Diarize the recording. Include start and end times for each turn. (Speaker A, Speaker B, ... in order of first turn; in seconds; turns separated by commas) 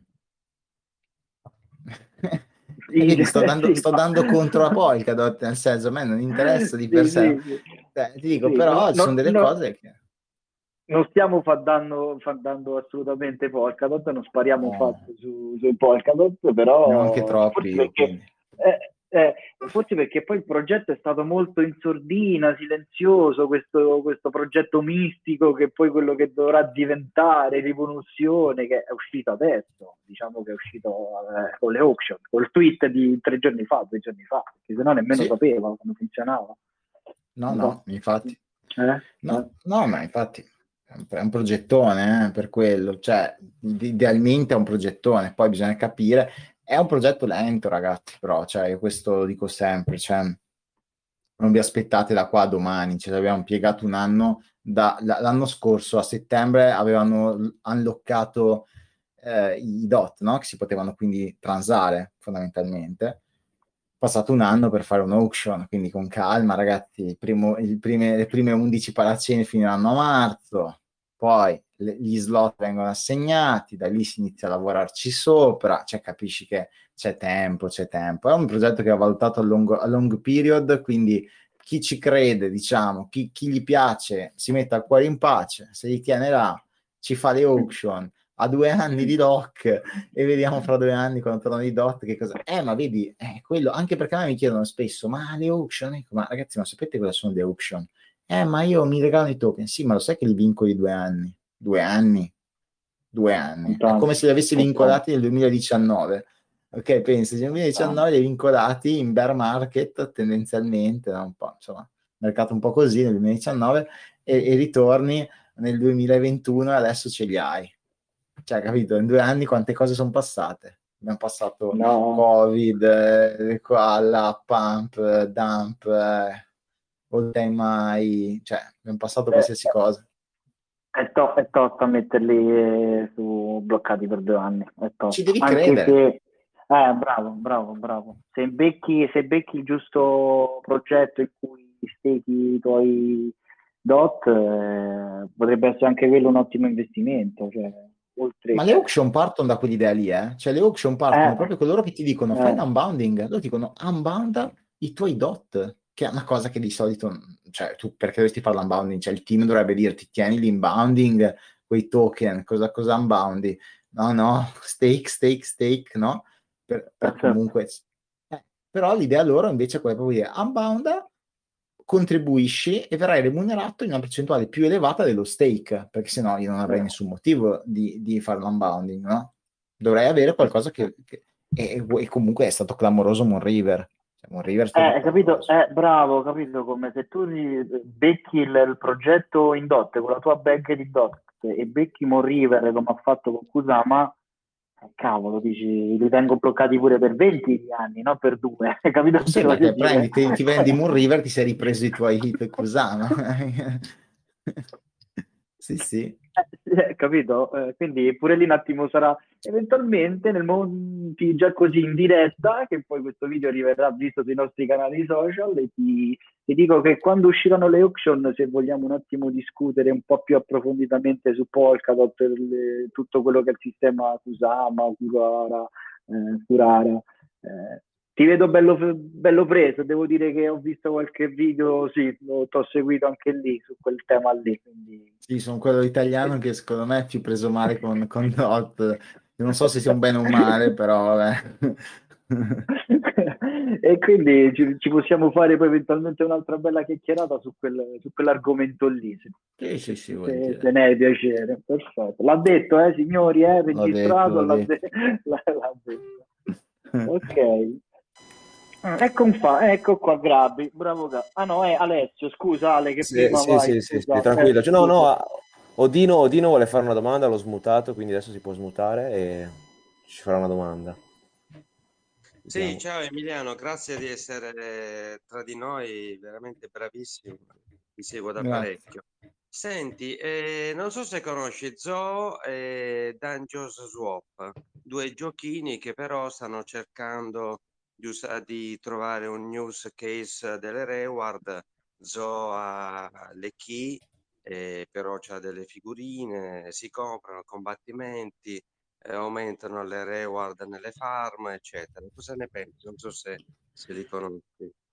Speaker A: 1.9-7.4, Speaker B: 2.9-4.7, Speaker B: 6.5-7.7, Speaker A: 7.9-9.9, Speaker B: 8.4-9.5, Speaker B: 10.9-36.6, Speaker A: 14.6-15.0, Speaker A: 16.9-18.3, Speaker A: 37.4-38.4, Speaker B: 37.5-39.5, Speaker A: 39.2-50.4, Speaker A: 51.4-58.7, Speaker A: 59.2-63.2, Speaker A: 64.0-102.3, Speaker A: 103.1-117.7, Speaker B: 103.7-105.0, Speaker B: 107.8-108.0, Speaker A: 118.5-126.5, Speaker B: 121.7-122.3, Speaker A: 127.1-130.0, Speaker B: 130.9-148.8, Speaker A: 135.1-136.0, Speaker A: 148.5-171.1, Speaker B: 151.1-151.5, Speaker B: 152.3-152.6, Speaker B: 167.0-167.4, Speaker A: 171.9-185.5, Speaker B: 184.8-194.2, Speaker B: 194.9-200.7, Speaker A: 199.2-203.9, Speaker A: 205.6-206.2, Speaker B: 206.4-235.1, Speaker A: 235.3-242.7, Speaker B: 242.7-249.3, Speaker A: 249.6-250.7, Speaker B: 250.2-256.2, Speaker A: 253.7-254.7, Speaker B: 257.0-257.8, Speaker B: 258.9-265.1, Speaker C: 263.0-271.0, Speaker C: 272.5-272.8, Speaker D: 272.5-304.7, Speaker A: 278.4-278.8